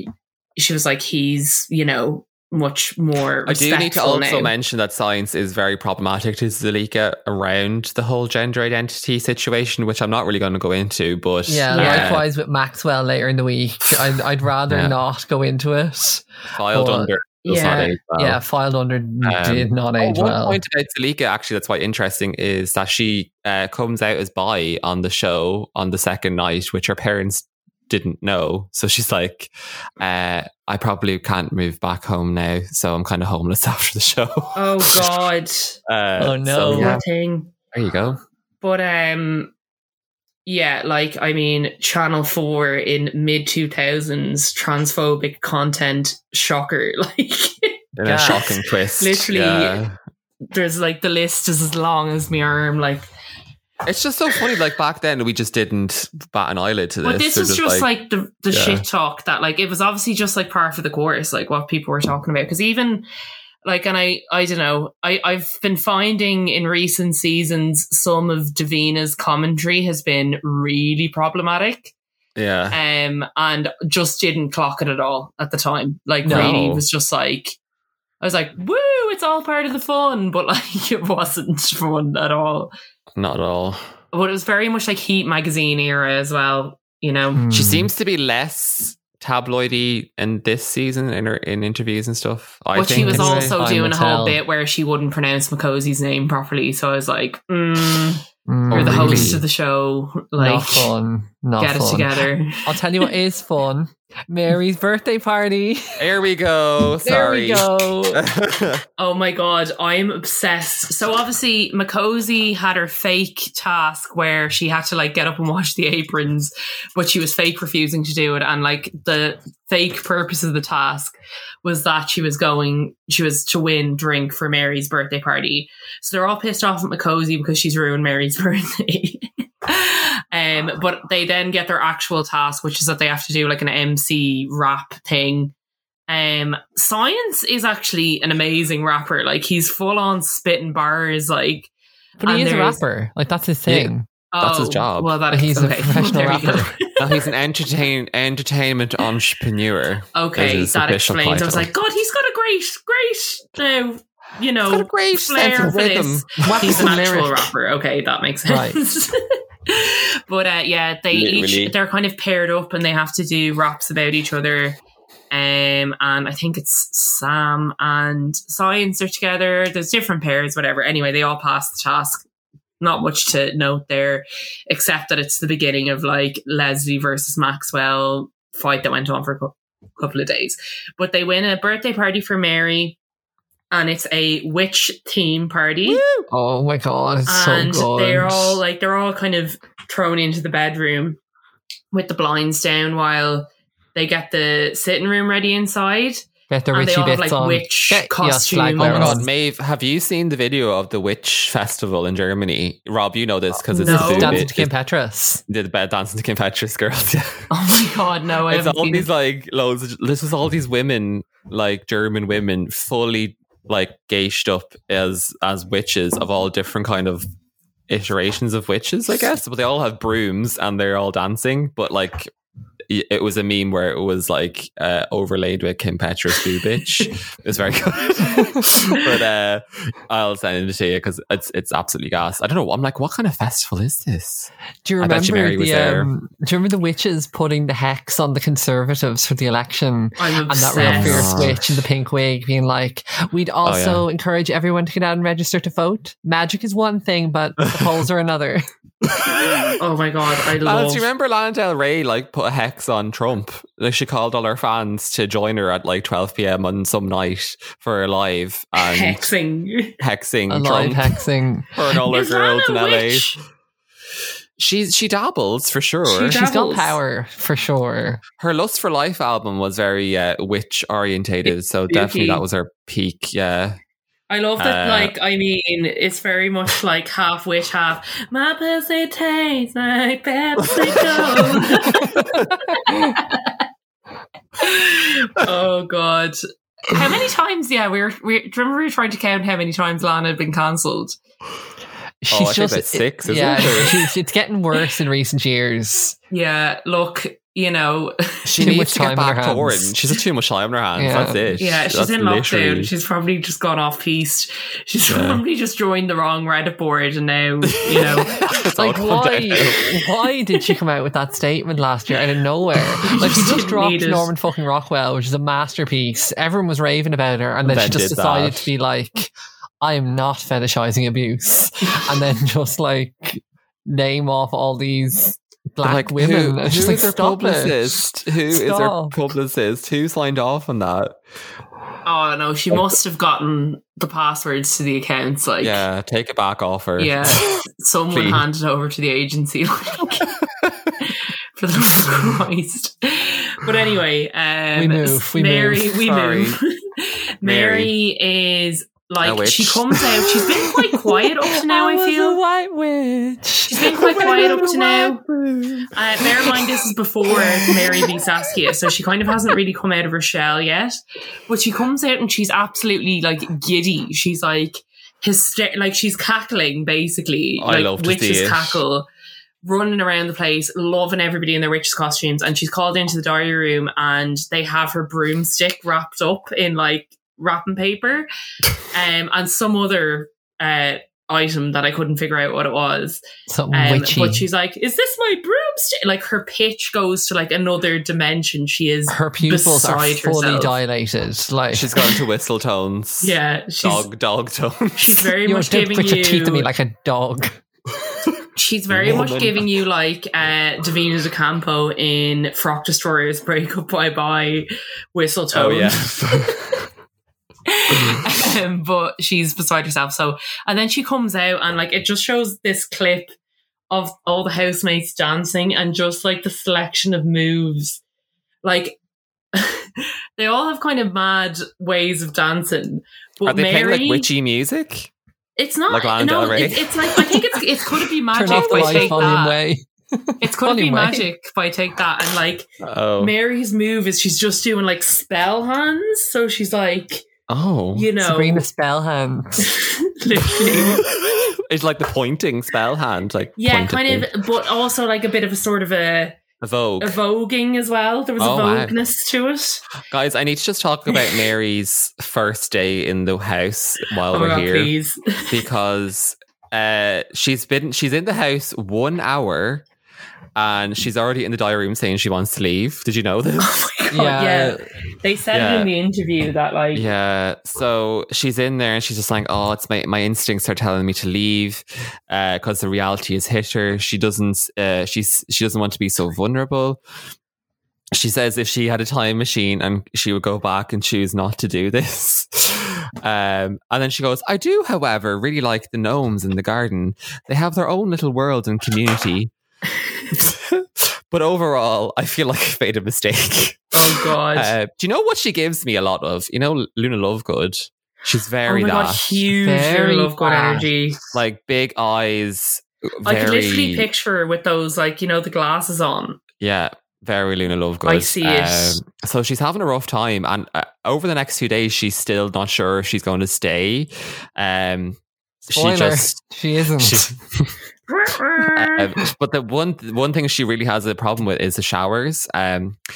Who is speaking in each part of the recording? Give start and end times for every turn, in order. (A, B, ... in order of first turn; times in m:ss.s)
0:00.6-0:04.5 A
0:03.4-0:12.2 B
0:11.5-0:17.1 C
0:11.7-0:12.2 A
0:14.7-0:15.0 B
0:16.5-0:18.4 B
0:17.4-0:18.0 A
0:18.2-0:20.6 C
0:19.2-0:35.1 B
0:34.5-0:35.8 A
0:35.9-0:37.0 B
0:36.2-0:36.9 C
0:36.8-0:37.5 A
0:37.7-0:38.2 B
0:38.6-0:39.5 A
0:40.4-0:49.8 A
0:48.0-0:50.0 B
0:48.0-0:48.4 C
0:50.5-0:53.1 A
0:53.8-0:57.9 B
0:57.0-1:03.0 A
0:58.5-0:58.8 B
1:03.6-1:11.9 A
1:12.4-1:12.8 B
1:12.7-1:17.6 A
1:16.2-1:16.6 C
1:16.3-1:16.8 B
1:18.2-1:22.7 A
1:23.2-1:23.8 B
1:24.1-1:27.4 A
1:27.3-1:27.9 C
1:27.5-1:33.5 B
1:32.7-1:40.9 A
1:32.9-1:34.4 C
1:38.5-1:39.4 C
1:38.7-1:39.4 B
1:40.4-1:46.0 C
1:41.6-1:43.0 A
1:46.0-1:48.8 B
1:47.0-1:48.2 C
1:49.0-2:15.5 A
2:16.1-2:22.8 A
2:22.2-2:24.1 C
2:23.7-2:25.1 B
2:24.3-2:27.2 A
2:25.3-2:26.7 C
2:27.0-2:31.7 B
2:30.1-2:44.8 A
2:34.7-2:36.9 B
2:36.4-2:37.4 C
2:38.5-2:38.8 C
2:41.1-2:41.7 B
2:45.3-2:52.2 A
2:52.8-3:03.0 A
3:03.7-3:06.0 A
3:05.9-3:06.2 B
3:06.3-3:08.6 C
3:07.3-3:11.2 A
3:11.9-3:19.2 A
3:16.5-3:19.3 C
3:18.8-3:24.7 B
3:23.7-3:24.4 A
3:23.8-3:25.4 C
3:25.5-3:27.5 B
3:27.5-3:29.1 A
3:28.5-3:37.3 B
3:37.9-3:42.3 B
3:42.9-3:56.1 B
3:54.8-4:08.6 C
4:00.2-4:01.4 A
4:00.8-4:01.8 B
4:03.6-4:04.0 B
4:09.8-4:11.0 A
4:10.6-4:19.3 B
4:18.8-4:19.9 A
4:20.0-4:21.1 B
4:20.5-4:21.7 C
4:21.7-4:23.3 B
4:22.0-4:23.4 A
4:24.6-4:26.4 B
4:26.0-4:27.0 A
4:26.3-4:28.2 C
4:28.4-4:33.8 B
4:31.9-4:32.4 A
4:34.3-4:43.6 A
4:34.6-4:35.1 B
4:40.8-4:41.6 B
4:41.9-4:42.4 C
4:44.6-4:51.2 A
4:52.2-4:56.2 C
4:52.3-4:54.0 B
4:56.3-4:58.7 A
4:58.4-5:02.9 B
4:58.6-5:00.2 C
5:01.0-5:01.6 C
5:01.6-5:08.4 A
5:05.1-5:05.4 B
5:07.7-5:10.1 B
5:08.7-5:27.9 C
5:13.0-5:14.3 A
5:17.6-5:18.7 B
5:25.8-5:31.2 B
5:28.5-5:29.1 C
5:32.0-5:35.8 A
5:35.6-5:37.6 B
5:37.0-5:40.3 A
5:38.1-5:38.4 B
5:41.0-5:52.4 A
5:44.8-5:45.9 C
5:45.9-5:46.6 B
5:47.4-5:47.9 B
5:49.2-5:50.2 B
5:50.7-5:54.8 C
5:53.7-5:55.2 A
5:54.1-5:55.8 B
5:55.9-6:09.1 A
5:57.3-5:58.2 C
6:07.6-6:08.8 B
6:09.6-6:18.3 A
6:18.9-6:23.2 A
6:23.5-6:24.4 C
6:23.7-6:30.8 A
6:29.1-6:31.9 C
6:31.7-6:35.3 B
6:33.2-6:34.0 A
6:35.0-6:36.7 A
6:35.4-6:37.6 C
6:38.6-6:46.1 A
6:38.9-6:39.6 B
6:45.5-6:46.9 B
6:47.7-6:53.3 A
6:48.0-6:48.3 B
6:53.9-6:58.0 A
6:58.6-6:59.0 A
6:59.5-7:04.3 A
7:03.4-7:05.1 B
7:05.6-7:09.6 A
7:05.9-7:07.1 B
7:08.3-7:11.2 C
7:08.5-7:09.3 B
7:10.4-7:17.2 A
7:12.8-7:13.3 B
7:17.5-7:18.1 B
7:17.9-7:18.6 A
7:18.2-7:19.7 C
7:19.6-7:21.0 A
7:20.7-7:24.3 B
7:23.6-7:26.4 A
7:26.6-7:27.2 B
7:27.0-7:29.8 A
7:28.4-7:28.9 B
7:30.1-7:34.9 B
7:31.1-7:31.4 A
7:34.3-7:35.6 A
7:35.5-7:39.8 B
7:40.6-7:43.8 B
7:43.6-7:47.1 A
7:44.1-7:44.8 C
7:45.5-7:45.9 B
7:46.9-7:57.0 B
7:58.1-8:09.5 B
8:10.3-8:19.4 B
8:13.9-8:14.7 A
8:18.6-8:21.2 A
8:19.6-8:20.9 C
8:21.3-8:24.1 B
8:23.2-8:26.4 A
8:26.6-8:36.4 B
8:28.0-8:29.0 A
8:35.7-8:37.2 C
8:37.0-8:37.8 B
8:38.1-8:39.1 A
8:38.8-8:43.0 B